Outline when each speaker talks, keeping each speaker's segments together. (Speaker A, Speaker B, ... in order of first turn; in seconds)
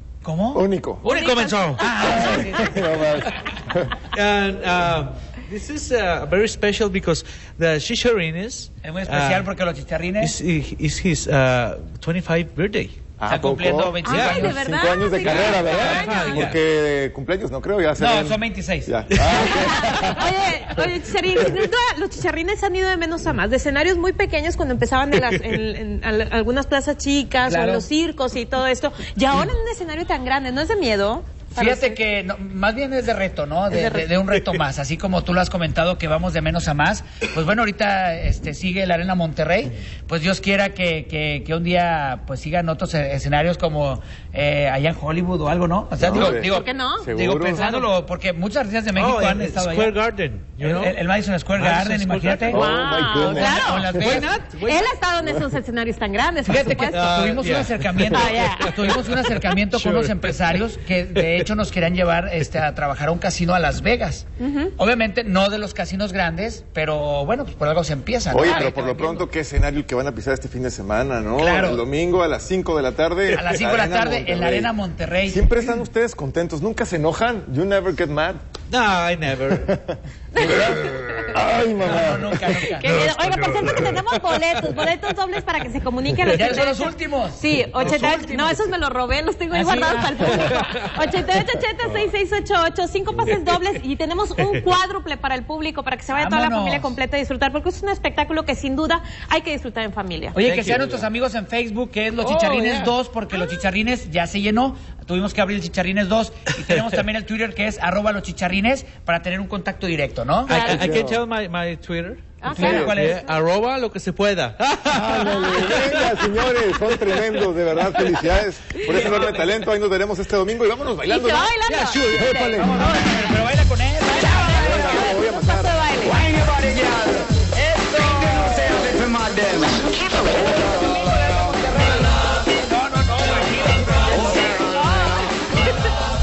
Speaker A: 0.2-0.6, 1.8-2.9, 8.8-10.3, 13.3-14.6, 15.7-16.4, 18.0-18.9, 27.4-27.9, 31.6-49.9, 50.6-52.6, 53.1-54.4, 56.4-64.2, 64.8-69.2, 71.4-71.8, 73.3-75.5, 81.8-82.9, 86.2-88.7, 89.5-90.7, 96.2-96.9, 100.3-110.8, 112.5-113.2, 118.9-119.3, 122.6-125.2, 127.4-129.0, 130.3-135.1
Speaker B: 0.5-1.0, 2.4-3.9, 13.2-20.3, 46.0-46.5, 47.0-47.7, 52.5-53.6, 68.3-74.7, 75.3-78.4, 79.5-82.4, 110.5-111.2, 112.6-112.9, 114.9-121.6, 122.1-122.9, 124.5-125.9
Speaker C: 1.0-2.5, 4.1-9.5, 10.2-13.0, 14.1-14.5, 15.2-16.6, 19.1-19.6, 48.9-51.0, 51.5-52.6, 53.9-54.9, 56.7-60.6, 78.7-79.7, 82.9-84.2, 90.2-91.0, 93.2-93.6, 100.4-101.0, 102.2-102.9, 110.5-116.3, 118.9-119.5, 121.7-123.0
Speaker D: 1.1-2.4, 14.0-16.4, 19.3-32.0, 33.7-34.1, 46.1-47.8, 52.5-57.4, 58.1-58.9, 64.4-64.7, 80.3-81.3, 82.6-100.4, 110.5-110.9, 112.4-113.2, 121.1-123.3, 124.1-126.2, 134.9-135.2
Speaker E: 126.2-127.3, 128.8-129.8